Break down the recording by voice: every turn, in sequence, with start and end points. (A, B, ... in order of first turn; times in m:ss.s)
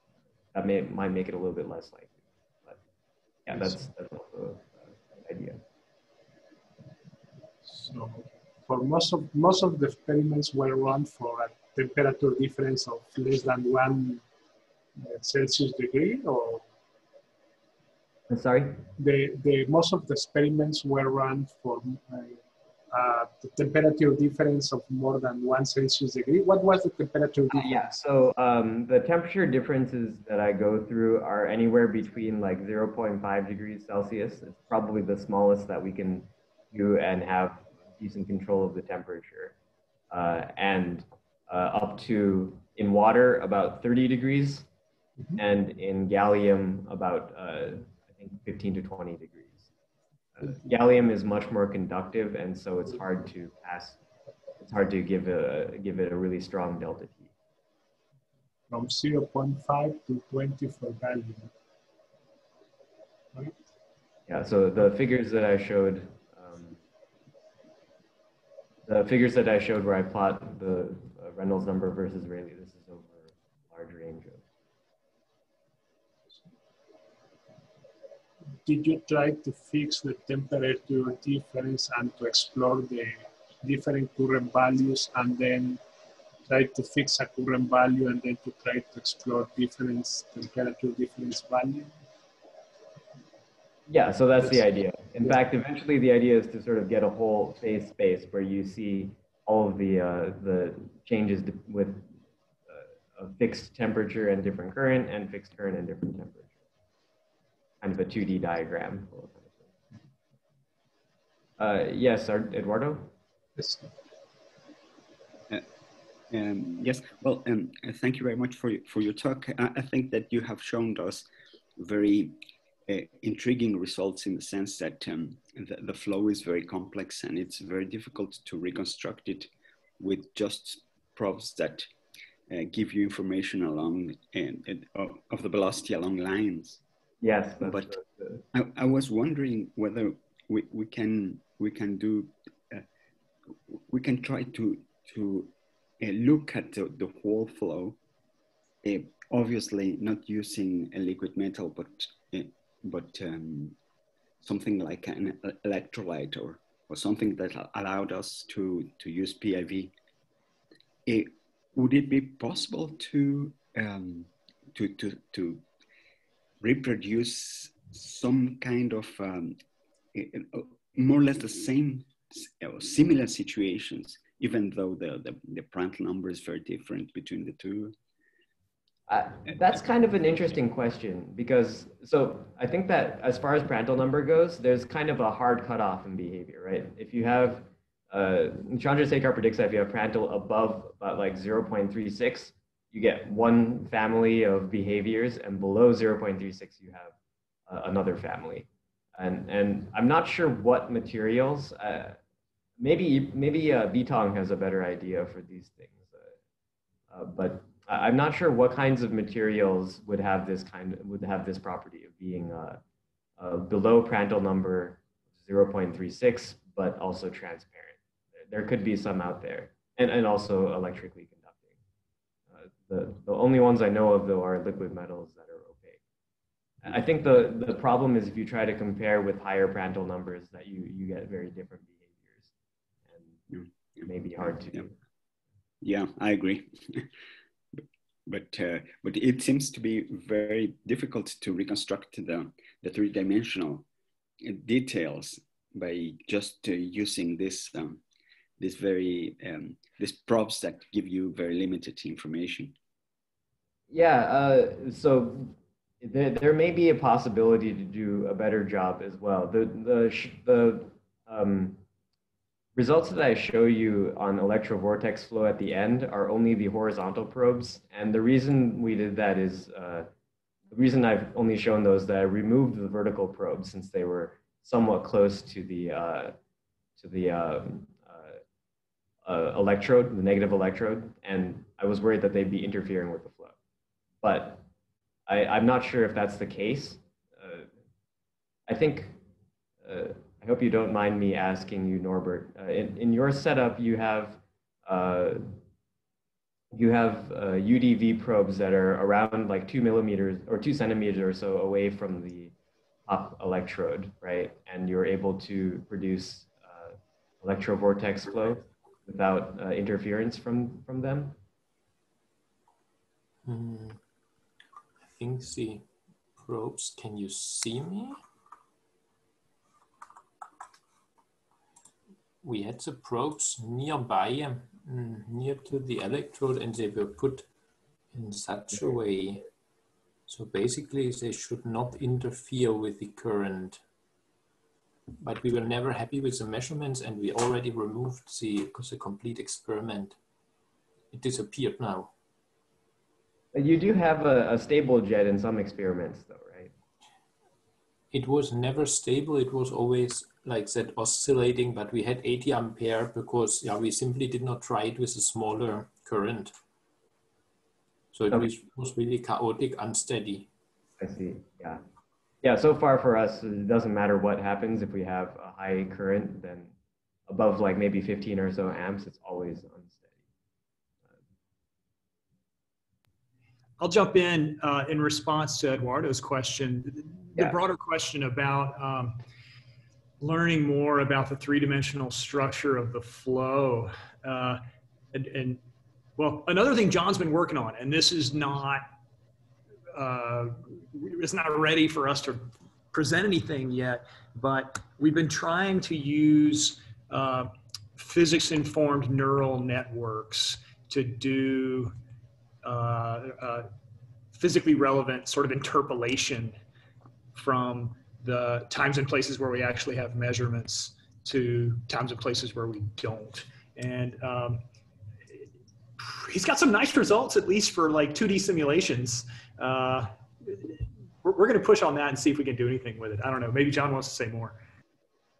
0:00.5-0:02.8 A
0:03.4-0:05.6 A
0:07.7-0:14.2 B
0:15.0-0:16.6 B
0:18.3-0:18.8 A
0:19.0-0:22.4 B
0:22.9-0:28.0 B
0:27.5-0:39.6 A
0:40.1-0:44.7 A
0:45.4-0:49.7 A
0:50.4-0:54.0 A
0:54.6-0:57.3 A
0:58.7-1:01.5 B
1:04.3-1:06.8 A
1:08.8-1:14.4 A
1:18.6-1:25.8 B
1:26.5-1:31.9 B
1:33.9-1:42.1 A
1:42.7-1:46.5 A
1:47.8-1:49.6 A
1:51.6-1:53.1 A
1:53.6-1:53.9 B
1:56.3-2:09.5 C
2:10.0-2:11.9 C
2:12.5-2:16.8 C
2:17.2-2:18.4 A
2:17.6-2:17.9 C
2:18.5-2:22.8 C
2:23.7-2:28.0 C
2:28.8-2:33.8 C
2:34.4-2:39.9 C
2:41.0-2:45.6 C
2:46.6-2:49.6 C
2:50.1-2:57.9 C
2:59.1-3:17.1 A
3:17.7-3:22.2 A
3:22.8-3:26.3 A
3:27.1-3:32.8 A
3:33.4-3:41.8 A
3:42.5-3:46.0 A
3:46.8-3:52.5 A
3:53.5-3:54.1 C
3:54.0-3:54.9 A
3:55.8-3:57.1 C
3:57.8-4:03.9 C
4:04.4-4:08.0 C
4:08.6-4:12.8 C
4:13.9-4:21.8 A
4:22.8-4:30.1 A
4:30.7-4:36.4 A
4:37.0-4:38.4 A
4:39.2-4:43.5 A
4:44.2-4:44.6 A
4:45.3-4:47.7 A
4:48.7-4:49.2 A
4:49.8-4:55.4 A
4:56.7-5:02.5 A
5:03.0-5:11.4 A
5:13.4-5:14.0 D
5:15.1-5:15.8 D
5:16.4-5:18.2 D
5:22.4-5:27.5 D
5:28.1-5:29.4 D
5:30.3-5:33.8 D
5:35.2-5:40.2 D
5:41.1-5:42.1 D
5:43.5-5:46.7 A
5:48.1-5:56.5 D
5:58.1-6:00.5 D
6:01.0-6:01.8 A
6:02.4-6:06.7 A
6:07.3-6:10.1 A
6:13.8-6:19.2 E
6:20.2-6:25.6 E
6:26.2-6:28.9 E
6:29.9-6:41.9 E
6:42.6-6:43.7 E
6:44.3-6:46.6 E
6:47.3-6:54.6 E
6:56.0-7:04.6 E